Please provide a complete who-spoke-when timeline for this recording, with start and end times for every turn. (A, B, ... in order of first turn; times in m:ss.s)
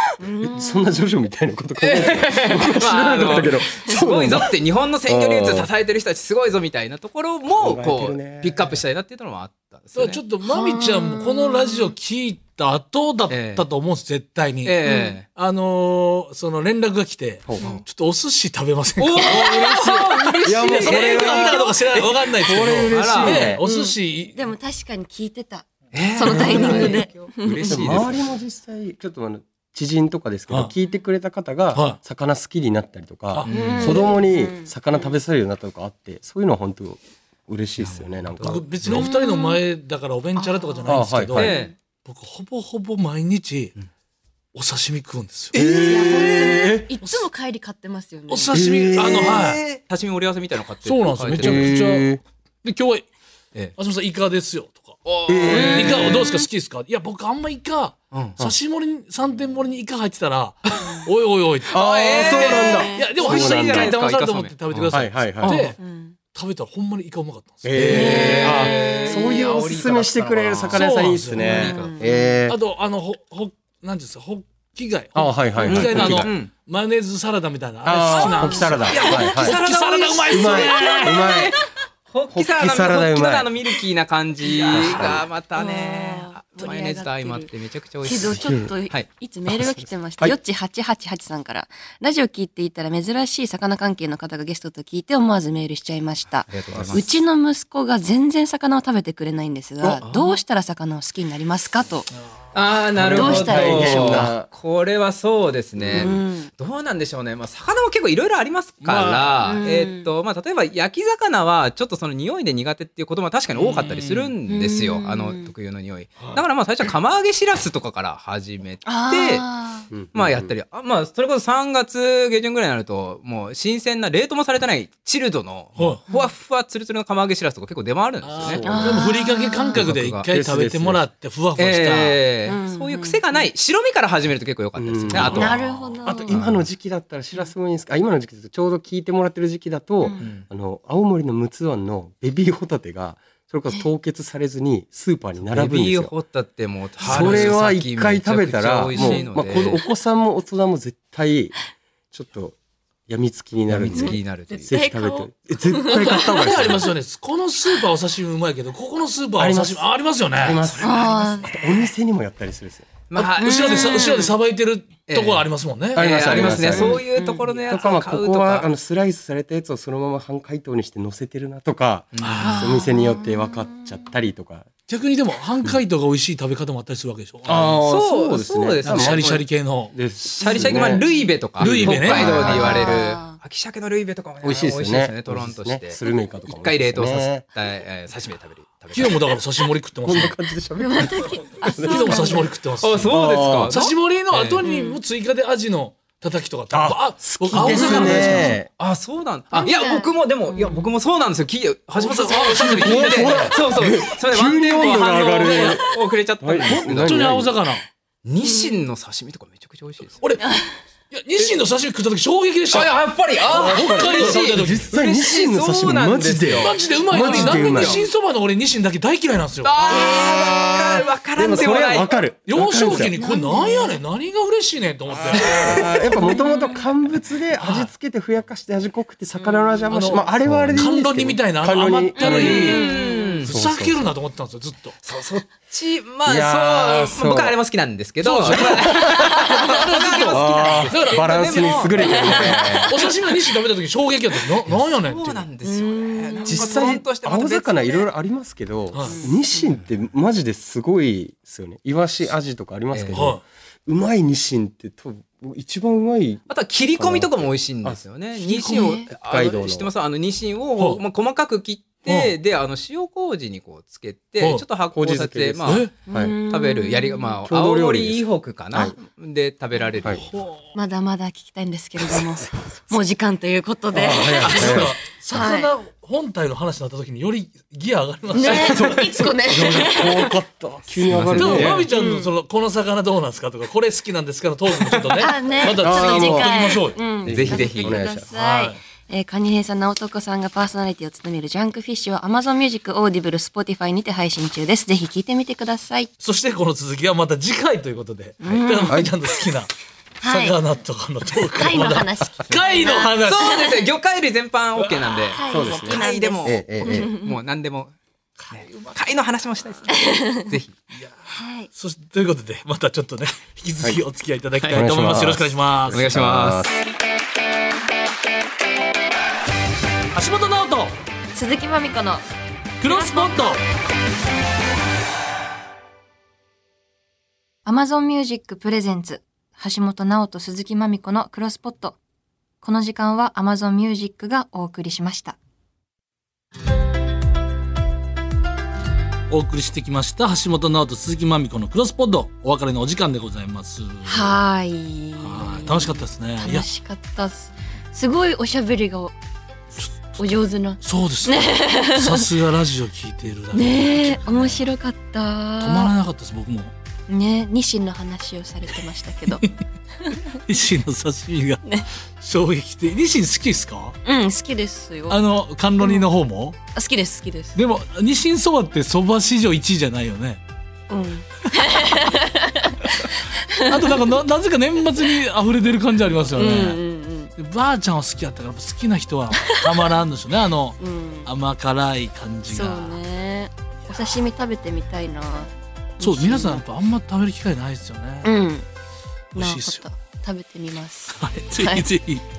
0:00.2-0:01.0 A
0:00.4-0:04.5 B
0:01.8-0:10.2 C
0:05.0-0:05.7 B
0:07.5-0:08.8 B
0:09.9-0:14.8 D
0:10.4-0:11.9 A
0:13.3-0:13.6 C
0:14.6-0:15.2 C
0:14.8-0:15.2 A
0:15.3-0:24.4 D
0:17.4-0:17.8 B
0:19.0-0:22.1 C
0:20.4-0:23.6 B
0:22.9-0:23.6 C
0:23.6-0:27.8 A
0:25.9-0:28.3 C
0:26.2-0:27.0 B
0:26.3-0:26.9 D
0:27.6-0:38.6 B
0:31.7-0:32.0 D
0:33.3-0:34.0 D
0:33.4-0:34.0 C
0:33.5-0:35.1 A
0:37.8-0:38.6 C
0:38.4-0:43.7 D
0:38.9-0:39.6 A
0:40.4-0:41.7 A
0:40.8-0:41.6 B
0:41.3-0:41.7 C
0:44.5-0:47.2 D
0:45.5-0:46.9 B
0:45.6-0:48.6 A
0:48.3-0:49.6 D
0:48.5-0:49.7 B
0:49.0-0:51.8 C
0:50.8-0:52.1 D
0:51.3-0:52.2 B
0:52.6-0:53.1 D
0:53.8-0:55.0 D
0:55.0-0:56.3 C
0:55.3-0:56.2 B
0:55.5-0:56.4 A
0:55.5-1:05.8 D
0:58.1-0:58.4 C
1:00.7-1:01.0 C
1:01.7-1:05.8 C
1:01.7-1:04.0 B
1:02.4-1:03.2 A
1:04.9-1:05.6 B
1:05.8-1:06.2 A
1:06.3-1:08.6 D
1:07.6-1:12.6 B
1:07.8-1:12.0 C
1:07.9-1:09.4 A
1:10.7-1:11.7 D
1:11.4-1:12.3 A
1:12.5-1:21.3 D
1:15.1-1:16.3 B
1:15.6-1:16.5 C
1:17.8-1:19.6 B
1:18.1-1:19.4 A
1:18.8-1:21.6 C
1:20.2-1:21.5 B
1:20.9-1:21.6 A
1:22.1-1:29.1 C
1:22.3-1:23.5 B
1:24.4-1:27.5 A
1:24.6-1:25.2 B
1:28.0-1:42.1 A
1:29.5-1:30.3 B
1:36.4-1:37.2 C
1:36.7-1:37.0 B
1:40.0-1:40.4 C
1:42.5-1:59.4 C
1:43.0-1:44.5 B
1:43.1-1:44.3 A
1:45.8-1:46.2 B
1:45.9-1:46.5 A
1:48.8-1:49.3 D
1:49.4-1:50.1 A
1:53.6-1:55.5 A
1:58.8-1:59.9 A
1:59.9-2:00.5 B
2:00.1-2:08.6 C
2:05.8-2:06.0 D
2:08.2-2:12.2 D
2:08.4-2:09.1 B
2:08.6-2:09.8 A
2:09.8-2:10.3 C
2:09.8-2:11.0 B
2:11.6-2:16.6 C
2:12.5-2:13.4 A
2:14.8-2:26.1 B
2:15.1-2:15.4 D
2:15.3-2:16.4 A
2:20.0-2:20.2 A
2:25.4-2:29.8 C
2:27.0-2:27.6 D
2:27.0-2:31.5 B
2:32.1-2:32.6 B
2:33.1-2:36.9 B
2:33.7-2:34.7 C
2:34.0-2:36.4 A
2:35.9-2:40.6 D
2:39.4-2:42.9 B
2:40.5-2:41.9 C
2:40.8-2:41.5 A
2:43.1-2:44.3 C
2:43.2-2:46.9 D
2:43.4-2:44.4 A
2:45.1-2:48.7 C
2:45.9-2:47.0 B
2:46.8-2:47.4 A
2:47.7-2:54.7 B
2:52.1-2:52.7 C
2:52.2-2:52.7 D
2:52.4-2:54.0 A
2:54.9-2:57.8 D
2:57.4-2:59.4 B
2:57.8-2:59.4 C
2:58.8-2:59.9 D
2:59.9-3:03.1 B
3:00.2-3:09.3 C
3:00.4-3:01.3 A
3:01.6-3:02.6 D
3:02.3-3:03.4 A
3:04.4-3:07.4 B
3:08.9-3:10.4 D
3:10.0-3:12.4 B
3:10.8-3:12.5 A
3:11.7-3:18.6 D
3:12.8-3:14.6 C
3:13.0-3:13.8 B
3:14.6-3:15.0 A
3:16.7-3:18.7 B
3:17.6-3:27.4 C
3:17.7-3:18.6 A
3:19.6-3:20.9 A
3:22.0-3:23.6 D
3:22.7-3:25.9 B
3:25.4-3:25.7 D
3:26.4-3:27.5 B
3:26.6-3:27.8 D
3:28.2-3:30.2 C
3:28.4-3:28.8 A
3:30.2-3:30.5 D
3:30.4-3:30.7 A
3:31.1-3:32.9 D
3:32.7-3:38.0 C
3:33.5-3:38.0 B
3:33.5-3:34.8 D
3:36.6-3:39.7 D
3:36.8-3:38.0 A
3:39.6-3:42.1 C
3:39.9-3:40.9 A
3:40.9-3:43.1 B
3:42.5-3:46.2 D
3:43.1-3:44.0 A
3:45.2-3:52.8 B
3:45.3-3:45.9 C
3:46.1-3:46.8 A
3:47.6-3:47.9 D
3:49.4-3:50.1 A
3:49.9-3:52.8 D
3:52.2-3:53.5 A
3:52.2-3:53.5 C
3:53.4-3:55.0 D
3:53.5-3:54.1 B
3:55.0-4:02.8 C
3:56.2-3:57.6 B
3:58.2-4:02.1 D
3:58.5-3:59.4 B
3:59.4-4:00.9 A
4:00.3-4:03.0 B
4:01.9-4:03.1 A
4:02.9-4:05.5 D
4:04.6-4:08.0 C
4:05.6-4:06.9 A
4:06.5-4:16.4 B
4:08.9-4:09.2 D
4:09.0-4:09.7 A
4:12.9-4:13.2 C
4:13.1-4:13.4 D
4:16.5-4:30.3 C
4:17.0-4:18.0 B
4:18.4-4:19.0 D
4:18.7-4:19.1 A
4:19.1-4:19.9 B
4:22.1-4:22.3 D
4:24.9-4:26.4 B
4:25.6-4:25.9 D
4:26.1-4:27.4 A
4:27.4-4:29.0 B
4:30.2-4:30.7 D
4:30.7-4:35.7 A
4:33.9-4:35.0 B
4:34.3-4:40.3 D
4:38.3-4:40.3 A
4:38.5-4:41.9 B
4:41.1-4:41.8 C
4:41.1-4:47.0 D
4:41.9-4:42.3 A
4:44.8-4:45.2 C
4:45.2-4:56.1 A
4:45.7-4:48.3 B
4:47.3-4:48.1 C
4:48.3-4:48.8 D
4:56.2-4:59.7 D
4:58.4-4:59.0 A
4:58.9-4:59.1 B
5:00.2-5:00.6 A
5:00.2-5:03.6 D
5:01.5-5:03.8 A
5:02.6-5:07.9 C
5:04.8-5:05.2 D
5:05.3-5:07.4 A
5:05.5-5:07.1 B
5:08.4-5:09.0 D
5:08.5-5:10.8 C
5:09.9-5:10.5 A
5:11.3-5:11.7 A
5:11.7-5:16.1 D
5:14.5-5:14.8 C
5:14.7-5:16.8 B
5:15.9-5:16.7 C
5:20.1-5:20.9 D
5:21.3-5:22.2 A
5:22.8-5:23.6 D
5:22.8-5:23.5 A
5:27.6-5:32.0 A
5:32.6-5:35.4 A
5:39.3-5:44.3 D
5:44.0-5:49.1 A
5:45.2-5:46.6 D
5:49.8-5:50.3 D
5:50.0-5:52.3 A
5:50.8-5:54.7 D
5:53.5-5:55.9 A
5:55.6-5:56.7 D
5:57.1-5:59.4 A
6:00.3-6:04.0 D
6:04.0-6:05.2 A
6:05.1-6:06.6 D
6:05.8-6:06.1 A
6:06.7-6:07.6 A
6:07.5-6:10.4 D
6:10.9-6:14.0 A
6:13.6-6:16.8 D
6:16.4-6:17.3 A
6:17.4-6:23.0 D
6:20.8-6:21.3 A
6:22.5-6:26.6 A
6:26.0-6:28.3 D
6:28.2-6:28.6 A
6:29.3-6:29.9 D
6:29.3-6:31.8 A
6:31.1-6:32.2 D